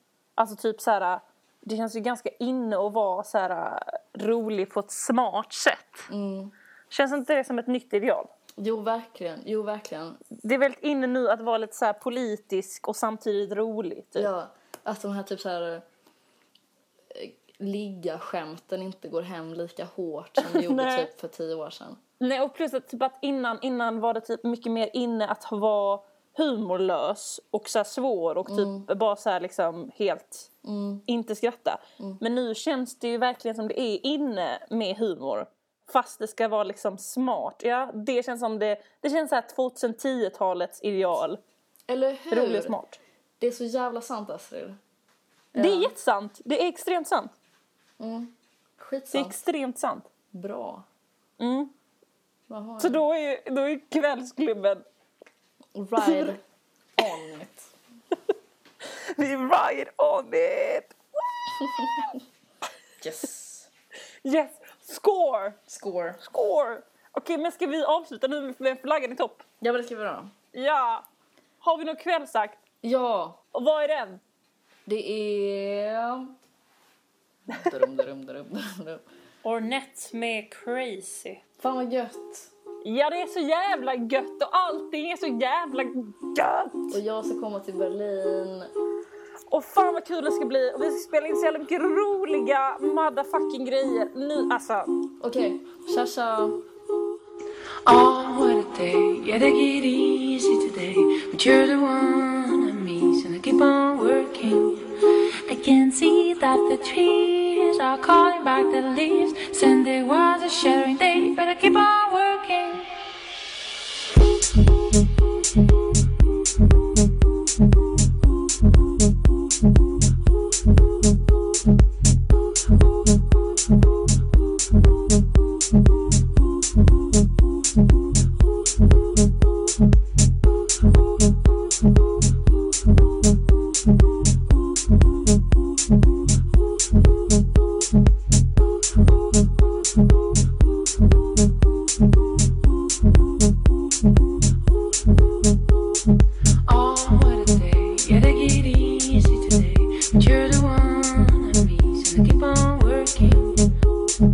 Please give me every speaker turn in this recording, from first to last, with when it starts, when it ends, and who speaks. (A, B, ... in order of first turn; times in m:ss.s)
0:00.4-0:06.1 A
0:06.1-0:06.5 B
0:06.9-0:08.3 A
0:08.6-0:10.2 B
0:10.4-0:14.3 A
0:14.2-0:15.8 B
0:17.1-0:22.0 B
0:20.4-0:21.1 A
0:22.2-0:30.5 A
0:28.5-0:28.9 B
0:30.6-0:31.0 B
0:31.1-0:41.4 A
0:41.9-0:42.8 B
0:42.3-0:43.0 A
0:43.4-0:44.8 B
0:45.5-0:45.9 B
0:45.6-0:47.3 A
0:48.0-0:49.4 B
0:49.1-0:50.1 A
0:50.3-0:50.8 B
0:51.4-0:51.7 A
0:52.5-0:53.0 B
0:52.8-0:54.8 A
0:55.8-0:56.4 B
0:57.0-0:57.7 B
0:59.2-1:02.0 A
1:03.0-1:03.7 B
1:04.2-1:05.6 A
1:05.7-1:06.2 B
1:06.2-1:09.4 A
1:09.6-1:10.3 B
1:10.5-1:11.0 A
1:11.6-1:12.6 A
1:12.8-1:13.4 B
1:13.5-1:14.2 A
1:14.9-1:16.3 B
1:17.5-1:19.0 B
1:19.4-1:21.4 A
1:21.6-1:22.5 B
1:22.8-1:27.0 A
1:26.9-1:28.7 B
1:29.5-1:34.9 A
1:35.2-1:36.6 B
1:37.9-1:44.9 C
1:45.5-1:52.9 C
2:26.7-2:33.7 C